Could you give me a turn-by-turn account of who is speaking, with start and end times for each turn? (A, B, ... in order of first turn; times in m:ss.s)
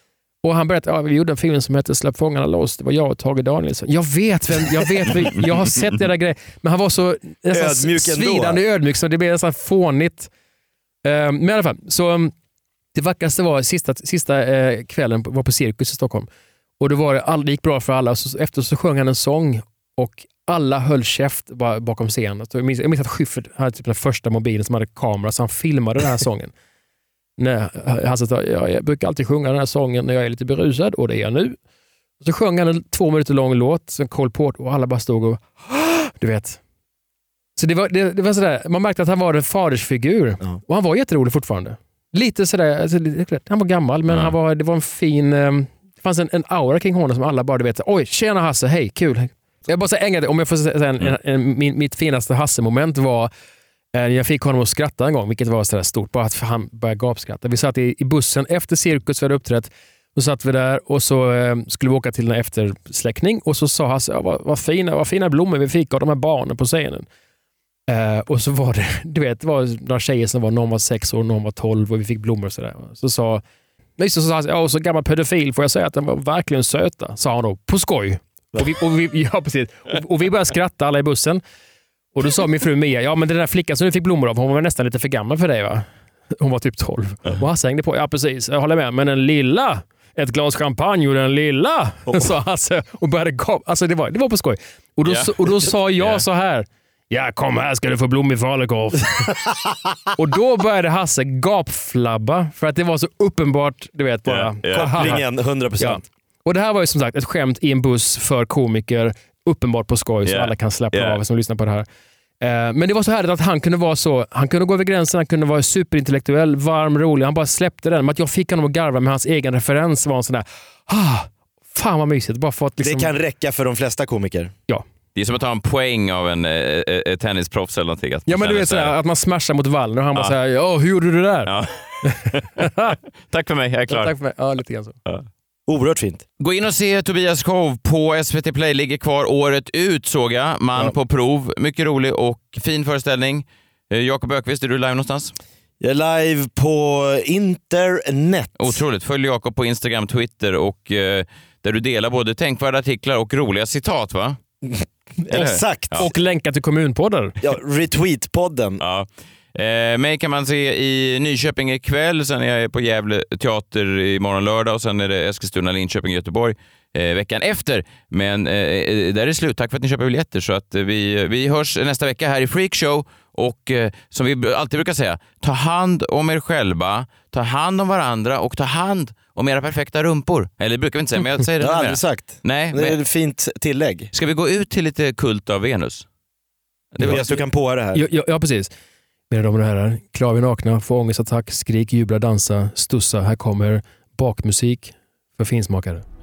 0:00.4-0:10.3 A
0:07.5-0:08.6 B
0:11.0-0:12.3 A
0:12.9-0:16.3 A
0:16.8-0:26.5 A
0:27.4-0:31.6 A
0:32.2-0:36.6 A
0:37.6-0:53.3 A
0:44.1-0:44.3 C
0:53.9-1:07.0 A
1:07.9-1:13.4 A
1:14.0-1:21.4 A
1:22.1-1:39.3 A
1:35.0-1:35.3 C
1:36.0-1:36.2 C
1:40.2-1:45.2 A
1:44.2-1:45.1 C
1:44.7-1:46.0 B
1:45.8-1:51.8 A
1:50.2-1:51.2 C
1:52.4-2:03.1 A
2:02.8-2:04.5 B
2:05.1-2:08.9 C
2:08.3-2:11.5 A
2:11.4-2:12.7 C
2:12.0-2:13.0 A
2:13.3-2:14.1 C
2:13.9-2:15.0 A
2:15.7-2:16.2 B
2:16.4-2:25.3 C
2:25.8-2:28.8 B
2:28.6-2:34.4 C
2:34.6-2:36.1 B
2:35.3-2:36.1 C
2:36.0-2:37.4 A
2:37.4-2:38.8 B
2:38.8-3:03.0 C
3:01.6-3:04.1 B
3:04.1-3:06.0 C
3:06.9-3:07.4 C
3:07.0-3:08.0 B
3:07.9-3:08.7 A
3:09.3-3:16.0 A